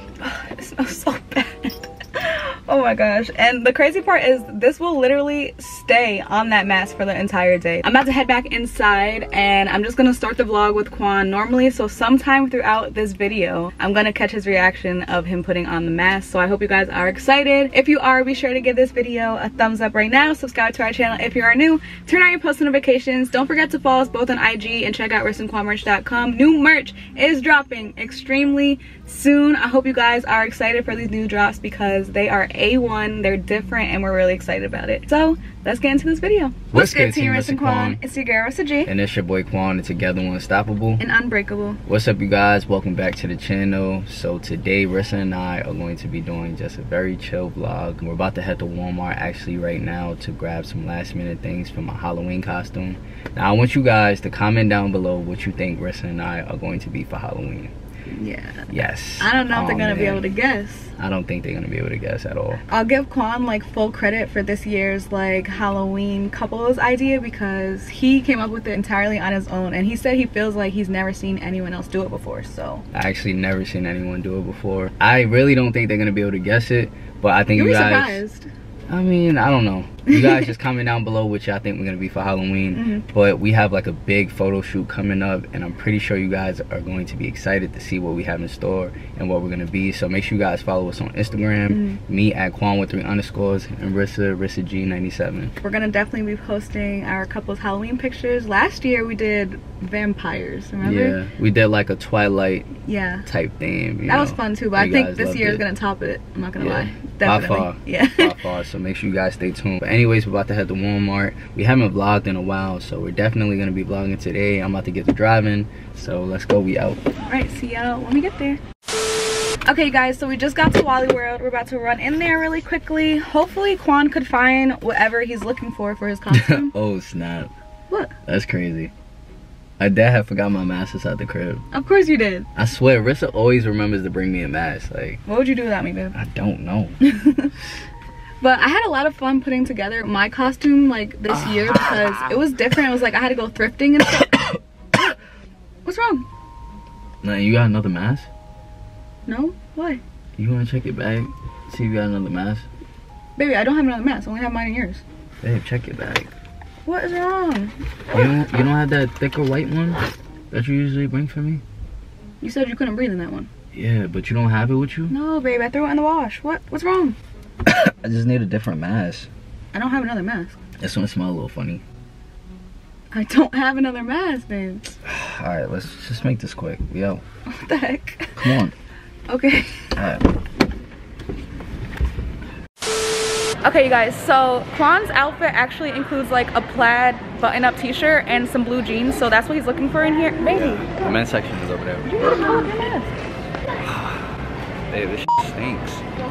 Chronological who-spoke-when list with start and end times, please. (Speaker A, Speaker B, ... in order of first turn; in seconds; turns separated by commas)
Speaker A: 0.2-38.9, Speaker B: 36.7-38.0, Speaker B: 38.9-41.0, Speaker A: 41.0-41.8, Speaker B: 41.9-57.7, Speaker A: 58.1-58.7, Speaker B: 58.7-60.3, Speaker A: 59.2-60.9, Speaker B: 61.0-62.6, Speaker A: 62.7-72.8, Speaker B: 72.9-78.2, Speaker A: 77.5-78.5, Speaker B: 78.9-95.5, Speaker A: 80.1-80.5, Speaker A: 82.7-83.0, Speaker A: 91.7-92.0, Speaker A: 95.6-101.2, Speaker B: 100.8-102.7, Speaker A: 102.8-103.2, Speaker B: 103.2-105.6, Speaker A: 104.1-108.3, Speaker B: 106.6-117.0, Speaker A: 117.2-118.6, Speaker A: 119.7-126.7, Speaker B: 126.3-127.5, Speaker B: 128.3-128.9, Speaker B: 129.8-131.6, Speaker A: 131.7-132.5, Speaker B: 132.6-135.2, Speaker A: 135.2-136.2, Speaker B: 136.1-137.0, Speaker A: 137.0-137.5, Speaker A: 138.4-144.5, Speaker B: 141.7-142.0, Speaker A: 145.8-146.2, Speaker B: 147.2-148.3, Speaker A: 149.2-150.0, Speaker B: 150.4-152.7, Speaker A: 153.3-155.0, Speaker B: 155.4-156.3, Speaker A: 156.8-157.7, Speaker B: 158.1-161.6, Speaker A: 162.4-163.5, Speaker B: 163.7-165.1, Speaker A: 165.1-167.2, Speaker B: 167.6-169.3, Speaker A: 169.7-170.6, Speaker B: 170.8-171.8, Speaker A: 173.1-175.0, Speaker B: 175.0-177.2, Speaker A: 177.5-178.5, Speaker B: 178.4-178.7, Speaker A: 179.3-179.8, Speaker B: 179.9-180.3, Speaker A: 183.6-191.1, Speaker B: 190.5-192.7, Speaker A: 192.0-193.1, Speaker B: 193.8-194.3, Speaker B: 194.9-196.0